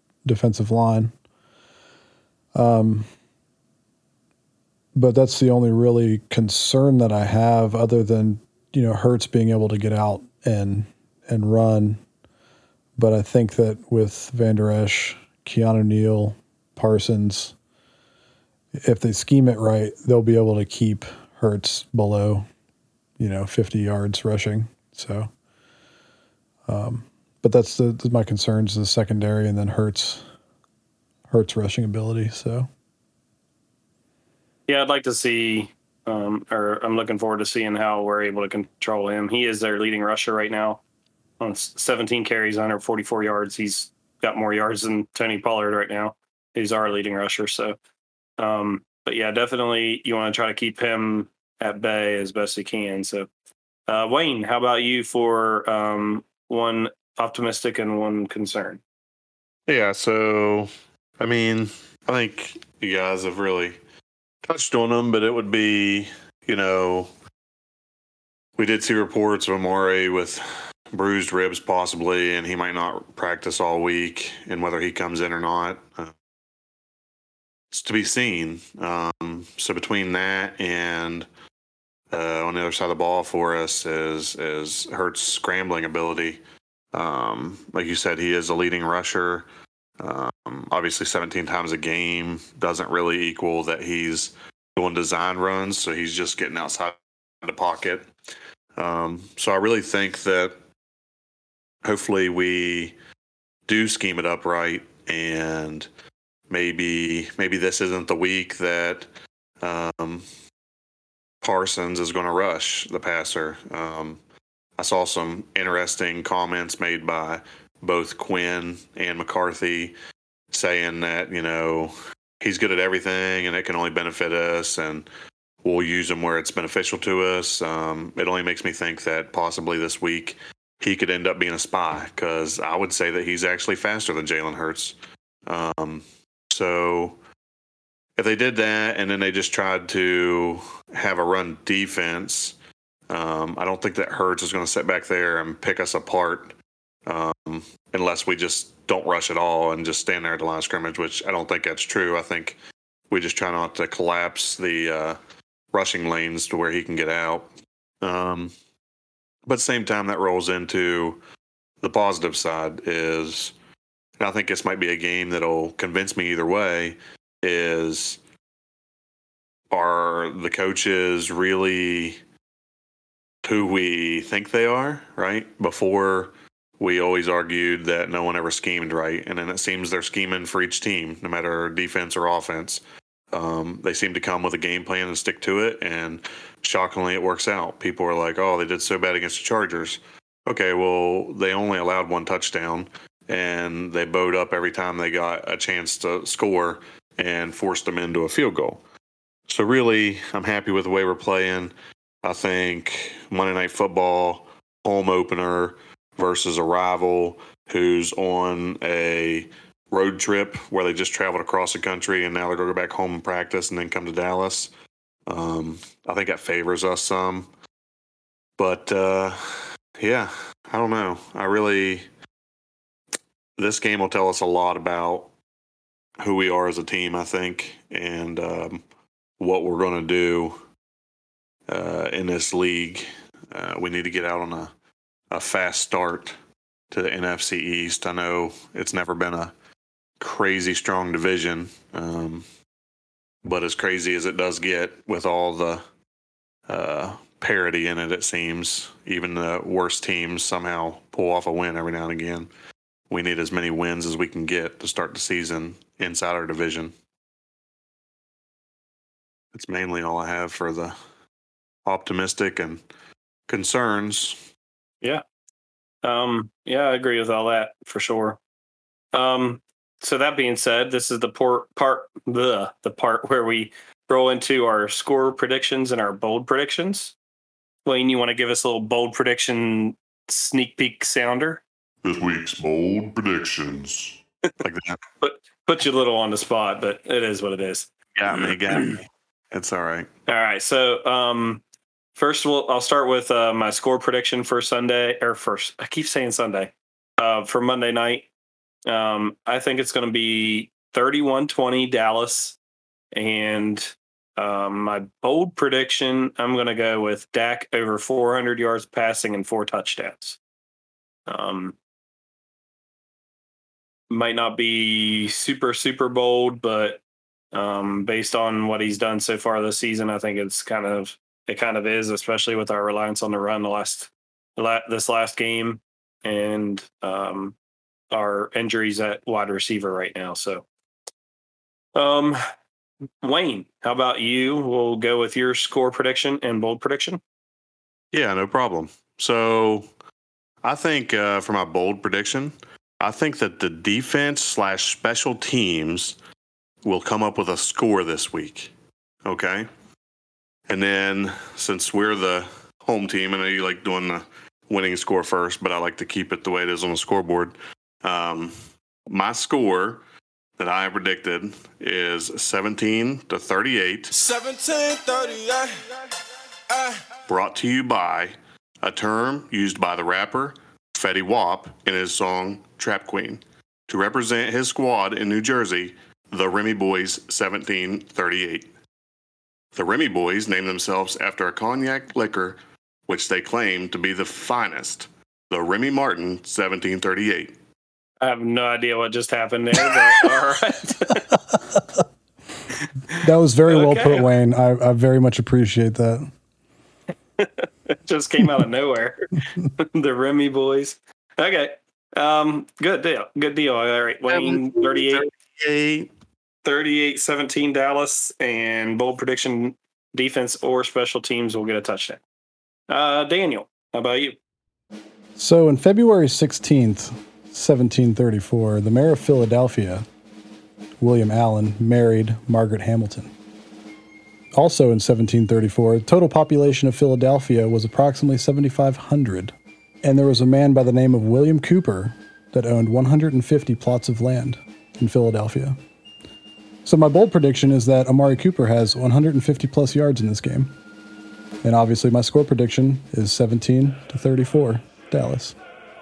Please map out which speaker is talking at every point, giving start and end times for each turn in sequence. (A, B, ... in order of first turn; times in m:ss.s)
0:00.2-0:01.1 A
0:02.5-0:03.0 A
0:04.9-0:12.0 A
0:13.0-0:17.5 A
0:18.8-0:22.4 A
0:23.2-0:25.3 A
0:26.7-0:30.2 A
0:31.3-0:32.7 A
0:34.7-0:40.8 B
0:41.4-0:47.8 B
0:48.4-0:53.3 B
0:53.9-0:58.8 B
0:59.7-1:03.8 C
1:04.4-1:07.1 C
1:08.6-1:16.1 C
1:17.7-1:21.3 C
1:22.1-1:26.4 C
1:26.9-1:29.5 C
1:30.0-1:38.1 C
1:38.8-1:40.5 C
1:41.8-1:42.9 C
1:43.7-1:45.9 C
1:46.5-1:49.1 C
1:49.6-1:50.2 C
1:51.4-1:54.2 C
1:54.8-1:59.9 C
2:00.5-2:05.1 C
2:05.6-2:17.2 C
2:18.2-2:22.6 C
2:23.1-2:26.5 C
2:27.0-2:32.6 C
2:33.1-2:35.2 C
2:35.7-2:37.5 C
2:38.0-2:38.5 C
2:39.4-2:41.2 C
2:41.8-2:43.5 C
2:44.2-2:48.2 C
2:49.7-2:52.2 C
2:53.4-3:02.8 C
3:03.3-3:18.8 C
3:19.5-3:34.7 C
3:35.3-3:37.5 C
3:38.6-3:42.0 C
3:43.6-3:45.3 C
3:46.2-3:48.8 C
3:49.4-3:50.6 C
3:51.7-3:54.7 C
3:55.3-3:56.3 C
3:56.9-3:59.5 C
4:00.2-4:02.4 C
4:03.4-4:05.8 C
4:06.7-4:12.5 C
4:13.1-4:16.9 C
4:19.5-4:20.9 C
4:21.8-4:22.8 C
4:23.5-4:24.4 C
4:26.0-4:28.4 B
4:29.1-4:37.1 B
4:37.8-4:41.6 B
4:42.0-4:44.2 D
4:44.6-4:45.0 C
4:45.2-4:48.9 B
4:48.1-4:50.1 C
4:50.3-4:51.6 B
4:52.2-4:58.3 B
4:58.9-5:02.6 B
5:03.1-5:10.4 B
5:11.3-5:11.8 B
5:14.1-5:17.0 B
5:17.5-5:27.5 B
5:28.1-5:30.6 B
5:31.9-5:32.4 B
5:33.2-5:37.2 B
5:38.1-5:39.9 C
5:40.6-5:46.2 C
5:46.8-5:48.7 C
5:49.2-5:49.7 C
5:50.7-5:58.5 C
5:59.1-6:00.0 C
6:00.6-6:04.1 C
6:04.1-6:05.9 E
6:06.7-6:07.0 E
6:07.3-6:18.7 C
6:19.7-6:27.5 C
6:28.2-6:31.3 B
6:31.7-6:32.0 A
6:33.1-6:34.3 B
6:33.2-6:36.3 A
6:37.4-6:45.3 B
6:44.3-6:46.1 C
6:46.6-6:52.2 B
6:52.9-6:54.4 B
6:55.4-7:00.0 A
7:01.0-7:03.3 A
7:04.5-7:15.8 A
7:16.8-7:20.7 A
7:21.6-7:25.5 A